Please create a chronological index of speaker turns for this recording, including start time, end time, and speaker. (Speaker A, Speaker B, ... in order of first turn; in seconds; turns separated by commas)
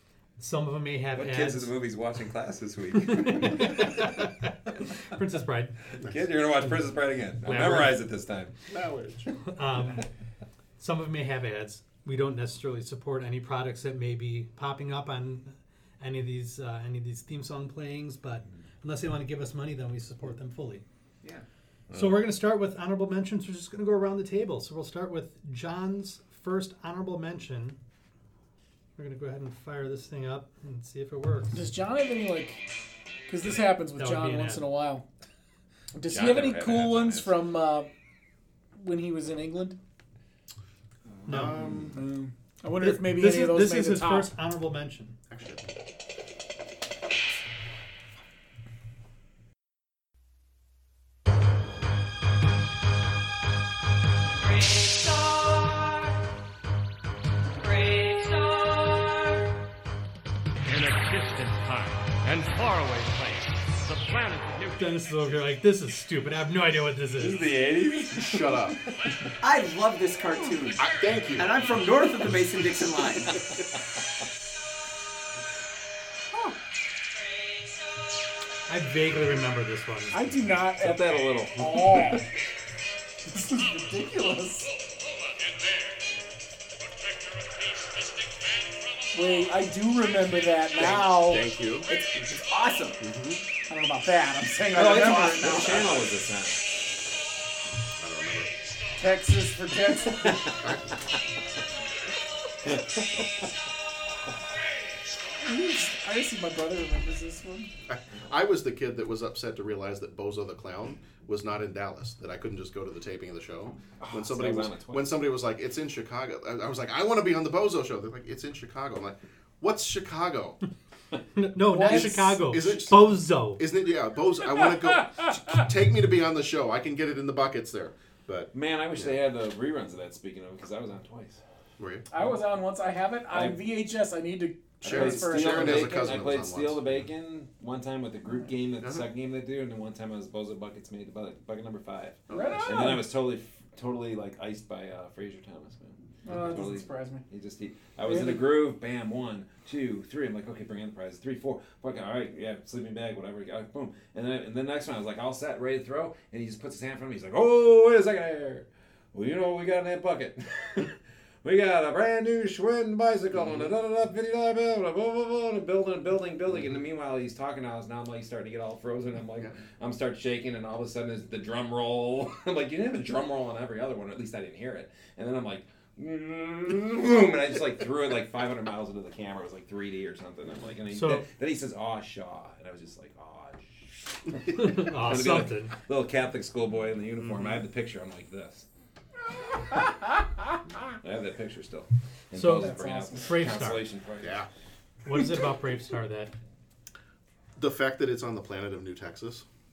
Speaker A: 0.4-1.7, Speaker B: 1.1-4.1, Speaker A: 3.2-4.5, Speaker A: 5.1-5.7, Speaker B: 6.0-8.5, Speaker A: 7.4-8.0, Speaker C: 8.7-9.3, Speaker A: 9.5-10.0, Speaker A: 10.8-20.8, Speaker A: 21.9-27.8, Speaker A: 29.0-31.6, Speaker D: 31.5-32.6, Speaker D: 33.3-35.0, Speaker A: 34.0-34.7, Speaker D: 35.9-37.9, Speaker B: 36.1-37.4, Speaker D: 38.8-39.8, Speaker C: 41.2-42.0, Speaker A: 41.3-41.8, Speaker D: 41.9-44.3, Speaker A: 42.8-45.1, Speaker C: 45.3-45.7, Speaker E: 60.7-64.8, Speaker A: 64.7-67.5, Speaker B: 67.2-68.6, Speaker C: 68.1-68.8, Speaker F: 69.4-73.4, Speaker C: 70.8-71.5, Speaker A: 78.7-80.2, Speaker D: 80.1-82.2, Speaker B: 80.8-82.3, Speaker D: 83.2-84.7, Speaker D: 89.1-91.4, Speaker C: 90.8-91.9, Speaker F: 91.9-93.0, Speaker C: 93.0-93.4, Speaker D: 93.7-96.1, Speaker B: 94.7-96.7, Speaker C: 98.0-98.5, Speaker D: 98.9-100.5, Speaker C: 100.6-100.9, Speaker D: 105.4-107.7, Speaker C: 107.9-120.6, Speaker B: 114.0-115.1, Speaker A: 121.3-123.6, Speaker C: 121.8-129.2, Speaker D: 121.8-122.2, Speaker B: 128.5-131.4, Speaker C: 131.8-132.1, Speaker D: 132.1-135.9, Speaker B: 133.3-133.6, Speaker B: 134.8-188.7, Speaker C: 134.8-137.0, Speaker C: 142.3-142.7, Speaker D: 142.3-143.0, Speaker D: 146.2-147.2, Speaker D: 148.0-148.5, Speaker C: 163.3-163.7, Speaker A: 180.9-181.2, Speaker A: 184.5-185.8, Speaker C: 187.2-187.6, Speaker B: 191.0-194.4, Speaker A: 192.3-193.8, Speaker D: 192.6-193.3, Speaker C: 194.2-194.5, Speaker A: 195.1-196.3, Speaker C: 197.6-199.4